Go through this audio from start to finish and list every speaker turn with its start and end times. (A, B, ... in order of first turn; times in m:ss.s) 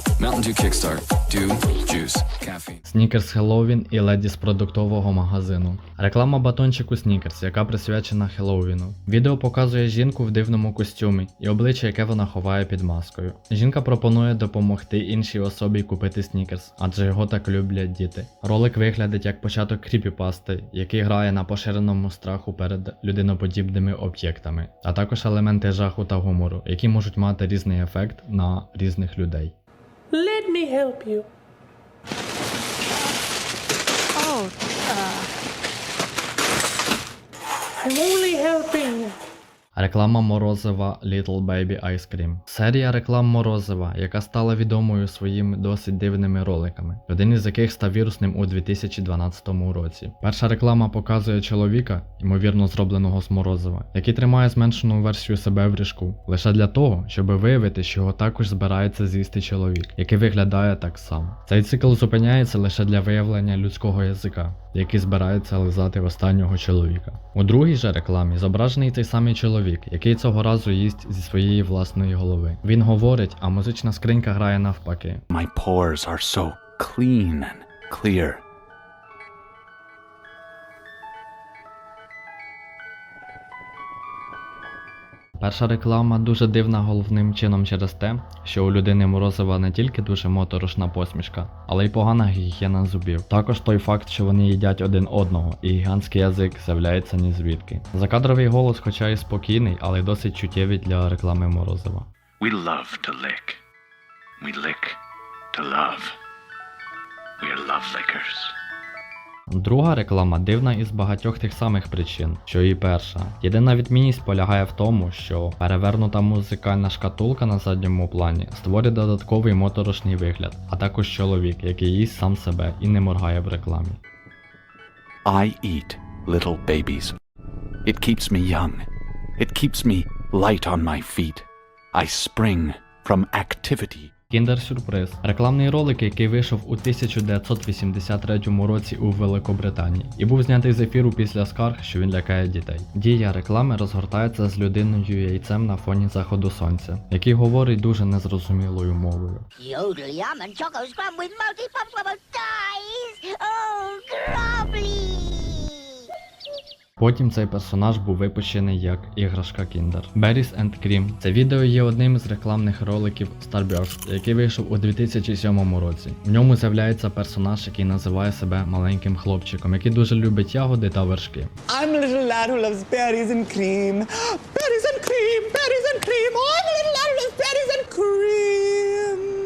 0:00.2-0:02.7 A
0:02.8-0:29.6 B
0:30.2-0:31.2 C
0:30.3-0:31.2 D
0:34.2-0:35.2 D
0:37.8-0:39.1 C
0:38.0-0:38.8 D
0:39.8-1:15.2 B
1:15.3-1:18.4 E
1:25.4-1:42.1 B
1:42.4-1:43.6 E
1:44.4-1:45.0 E
1:45.5-1:46.1 E
1:47.4-1:48.6 E
1:49.5-2:04.0 B
2:05.2-2:07.2 E
2:07.8-2:14.1 E
2:14.3-2:29.4 B
2:29.6-2:35.9 F
2:37.0-2:51.5 B
2:51.7-2:59.3 G